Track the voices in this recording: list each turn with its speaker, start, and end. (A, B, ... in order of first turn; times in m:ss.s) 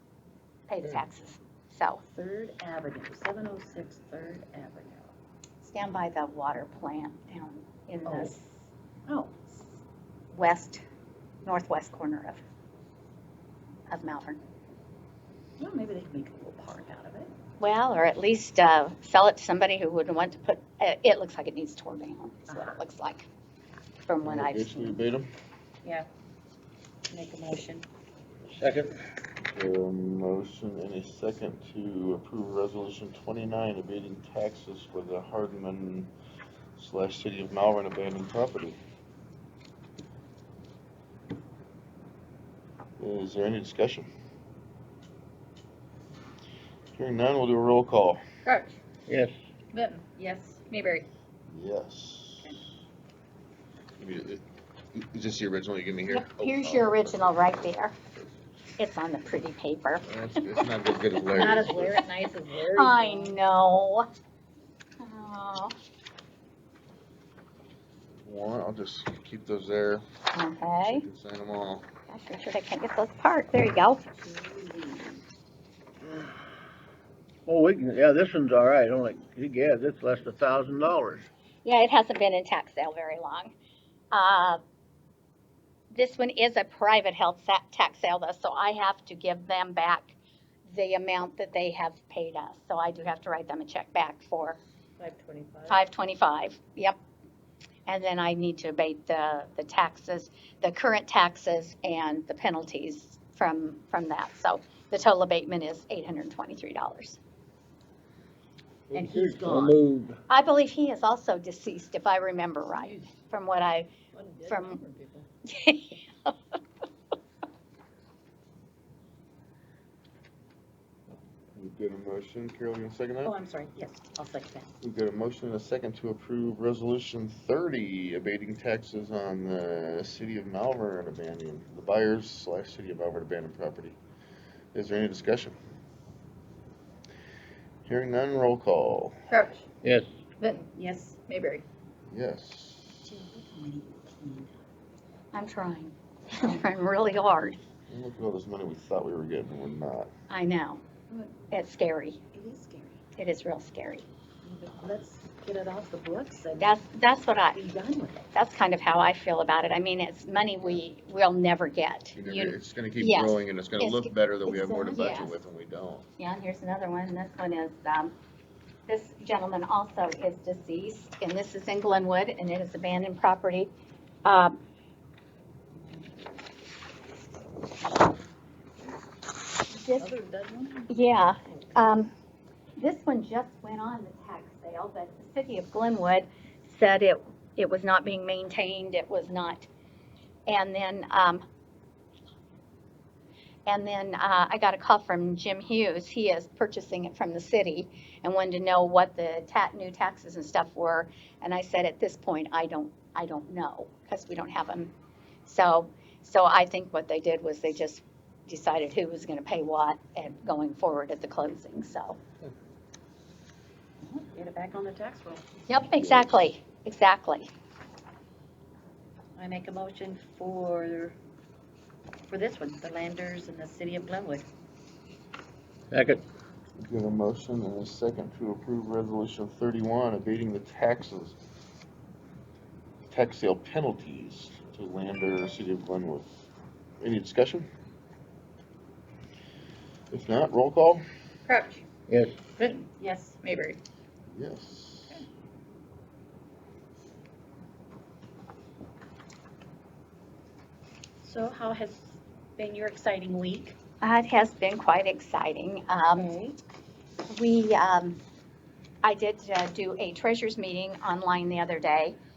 0:00.7-0:02.0 A
0:02.1-0:05.1 B
0:05.6-0:08.6 A
0:08.0-0:08.3 B
0:09.1-0:09.6 B
0:10.3-0:10.8 A
0:11.4-0:12.4 A
0:13.9-0:14.4 A
0:15.6-0:17.3 B
0:17.6-0:23.2 A
0:22.5-0:22.8 B
0:24.0-0:25.0 A
0:24.2-0:25.3 C
0:27.1-0:27.8 B
0:28.5-0:28.9 D
0:29.4-0:36.1 C
0:36.8-0:38.8 C
0:43.0-0:44.1 C
0:46.9-0:48.2 C
0:48.4-0:48.8 E
0:49.1-0:49.3 D
0:49.7-0:50.1 E
0:50.1-0:50.6 B
0:50.7-0:51.0 E
0:51.5-0:52.6 C
0:54.0-0:57.0 C
0:56.1-0:57.9 A
0:58.8-1:00.0 A
1:00.0-1:02.0 C
1:01.3-1:03.4 B
1:01.6-1:02.0 A
1:02.7-1:04.1 A
1:05.0-1:05.7 A
1:08.2-1:10.0 C
1:10.3-1:11.0 A
1:10.8-1:11.8 C
1:12.1-1:14.2 A
1:14.2-1:15.1 B
1:17.4-1:21.3 D
1:21.6-1:23.5 A
1:24.1-1:24.6 A
1:25.9-1:30.2 A
1:30.7-1:34.6 A
1:35.0-1:35.8 B
1:35.7-1:37.0 A
1:37.9-1:47.2 A
1:48.9-1:50.2 D
1:48.9-1:49.8 B
1:50.3-1:53.9 A
1:54.1-1:55.2 B
1:54.5-1:54.8 A
1:55.4-1:56.3 A
2:01.5-2:03.3 C
2:03.2-2:04.7 B
2:04.8-2:14.0 C
2:14.7-2:15.6 C
2:17.8-2:19.2 C
2:19.3-2:19.6 E
2:20.4-2:20.7 E
2:20.7-2:21.2 B
2:21.2-2:21.6 E
2:22.1-2:23.1 C
2:23.0-2:24.6 B
2:25.3-2:27.6 A
2:27.9-2:30.1 C
2:30.3-2:32.2 A
2:32.3-2:33.0 B
2:33.2-2:34.0 A
2:34.4-2:36.7 B
2:36.6-2:37.6 A
2:37.5-2:38.2 B
2:38.3-2:44.1 A
2:42.1-2:46.1 C
2:44.5-2:45.3 B
2:44.9-2:45.3 A
2:46.2-2:48.1 A
2:48.9-2:53.7 A
2:54.2-2:54.6 A
2:59.7-3:00.1 A
2:59.8-3:01.6 B
3:00.9-3:02.1 A
3:02.8-3:09.7 A
3:10.5-3:11.4 A
3:13.7-3:24.9 A
3:25.4-3:32.2 A
3:34.0-3:35.5 B
3:35.7-3:37.5 A
3:35.9-3:36.5 C
3:39.4-3:41.2 B
3:42.3-3:44.5 B
3:45.9-3:46.2 D
3:46.8-3:51.4 C
3:53.0-3:56.3 C
3:57.0-3:57.7 C
4:00.1-4:01.0 C
4:01.5-4:01.8 E
4:02.1-4:02.4 D
4:02.6-4:02.9 E
4:02.9-4:03.4 B
4:03.4-4:03.8 E
4:04.3-4:05.2 C
4:11.2-4:13.8 B
4:14.0-4:16.3 A
4:16.1-4:16.6 B
4:17.3-4:18.2 A
4:19.0-4:22.2 A